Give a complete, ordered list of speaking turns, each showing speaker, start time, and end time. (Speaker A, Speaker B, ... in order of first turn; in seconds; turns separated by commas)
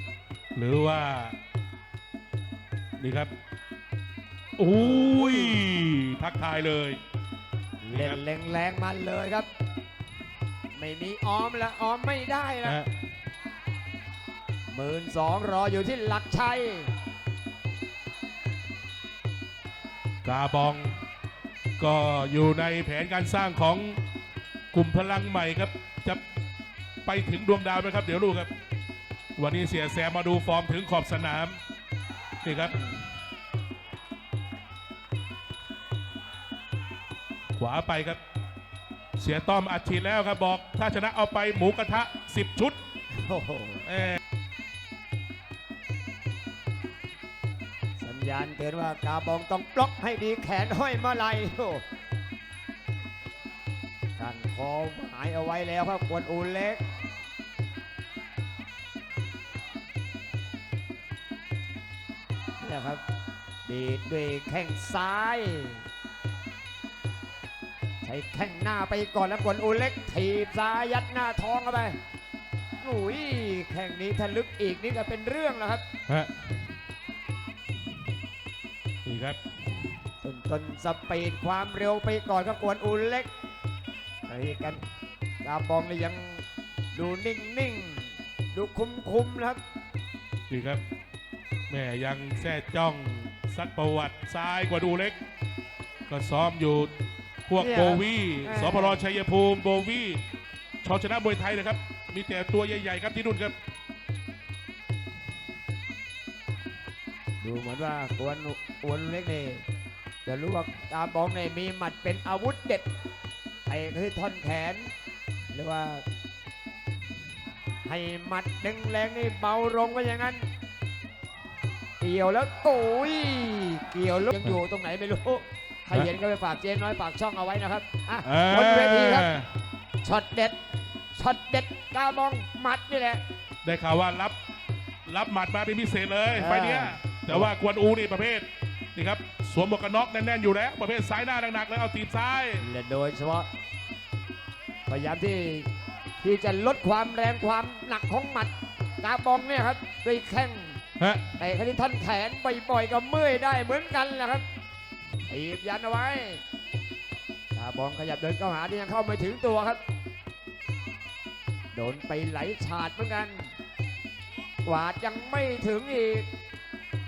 Speaker A: 0.6-1.3, Speaker A: 3.0-3.3, Speaker A: 4.6-7.0, Speaker B: 4.7-5.6, Speaker B: 7.8-9.5, Speaker A: 7.9-8.2, Speaker B: 10.7-12.8, Speaker A: 12.6-12.9, Speaker B: 14.7-16.9, Speaker A: 20.2-21.0, Speaker A: 21.8-24.0, Speaker A: 24.7-26.2, Speaker A: 27.0-28.5, Speaker A: 29.4-31.6, Speaker A: 32.4-32.8, Speaker A: 37.6-38.2, Speaker A: 39.2-42.8, Speaker B: 43.1-43.9, Speaker A: 43.9-44.2, Speaker B: 48.0-51.8, Speaker B: 54.2-56.8, Speaker B: 62.6-63.0, Speaker B: 63.6-65.8, Speaker B: 68.0-72.0, Speaker B: 72.8-75.8, Speaker A: 76.1-76.3, Speaker A: 79.0-79.4, Speaker B: 80.2-83.3, Speaker B: 84.3-84.8, Speaker B: 85.4-89.6, Speaker A: 90.5-90.8, Speaker A: 91.7-95.2, Speaker A: 96.1-96.9, Speaker A: 97.5-100.2, Speaker B: 97.6-99.1, Speaker A: 100.8-103.5, Speaker B: 107.4-109.7, Speaker B: 110.2-112.8, Speaker B: 113.7-114.9, Speaker B: 115.5-116.0, Speaker B: 117.8-120.5, Speaker B: 122.0-129.3, Speaker A: 128.2-129.5, Speaker B: 130.0-130.6, Speaker B: 131.1-133.2, Speaker A: 133.6-134.3, Speaker A: 135.1-142.6, Speaker B: 136.3-137.5, Speaker B: 142.6-143.5, Speaker B: 144.9-145.7, Speaker B: 146.2-150.8, Speaker A: 151.0-151.3, Speaker B: 151.4-154.4, Speaker B: 155.3-156.4, Speaker B: 157.5-159.8, Speaker B: 161.7-163.5, Speaker B: 164.6-166.3